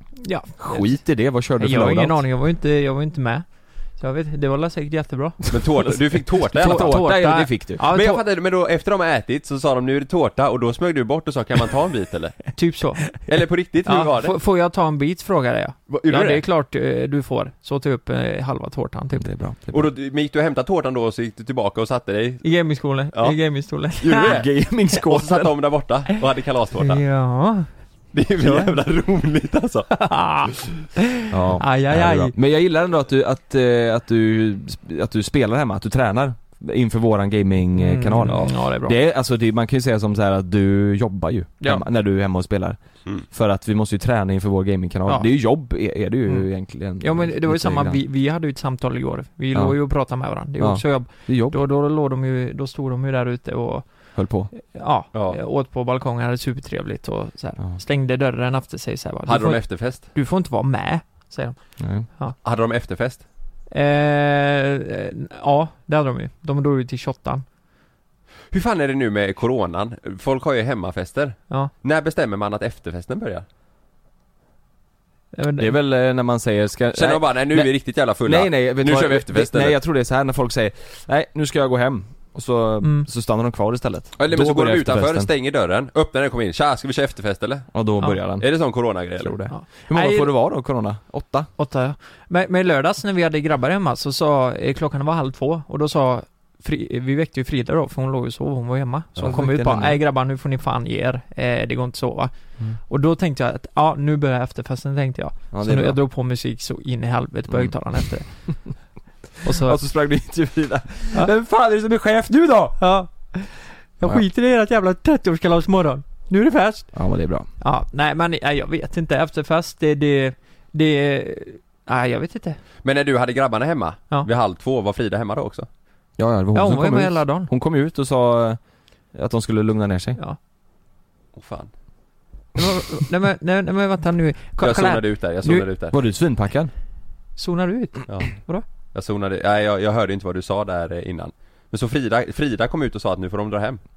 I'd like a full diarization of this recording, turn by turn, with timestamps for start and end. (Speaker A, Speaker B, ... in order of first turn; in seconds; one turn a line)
Speaker A: 0.2-5.5
Speaker B: 0.6-2.2
Speaker C: 5.5-7.2
Speaker B: 6.5-7.8
Speaker A: 6.6-8.2
Speaker C: 7.9-12.5
Speaker A: 12.6-13.1
Speaker C: 13.2-14.3
Speaker A: 13.9-19.3
Speaker C: 15.9-16.4
Speaker B: 19.2-19.9
Speaker C: 19.7-22.5
Speaker A: 22.4-24.4
Speaker C: 23.1-23.4
Speaker C: 24.0-27.0
Speaker B: 24.2-25.6
Speaker A: 26.8-27.7
Speaker C: 28.1-30.0
Speaker A: 28.4-28.7
Speaker A: 29.9-32.3
Speaker B: 31.3-48.0
Speaker A: 37.8-39.0
Speaker A: 45.1-45.5
Speaker A: 47.0-62.4
Speaker B: 49.5-51.6
Speaker B: 54.1-54.5
Speaker C: 55.1-55.4
Speaker C: 59.3-60.0
Speaker B: 61.8-62.1
Speaker C: 62.4-63.2
Speaker A: 63.7-67.5
Speaker C: 68.5-73.5
Speaker A: 75.3-75.7
Speaker B: 75.6-85.3
Speaker C: 76.9-79.8
Speaker A: 82.8-83.1
Speaker C: 84.2-87.7
Speaker B: 87.7-88.5
Speaker C: 88.4-89.4
Speaker B: 89.2-91.5
Speaker A: 89.5-90.3
Speaker A: 91.6-108.3
Speaker B: 99.2-100.0
Speaker B: 105.5-106.0
Speaker B: 109.4-112.8
Speaker A: 109.4-109.8
Speaker A: 112.8-116.9
Speaker B: 116.9-117.5
Speaker A: 117.6-122.6
Speaker C: 122.8-125.7
Speaker B: 126.2-128.6
Speaker A: 126.5-127.5
Speaker B: 129.1-130.2
Speaker C: 131.4-131.7
Speaker A: 132.6-135.7
Speaker C: 134.6-135.9
Speaker B: 135.9-136.7
Speaker A: 137.4-138.7
Speaker C: 138.9-143.8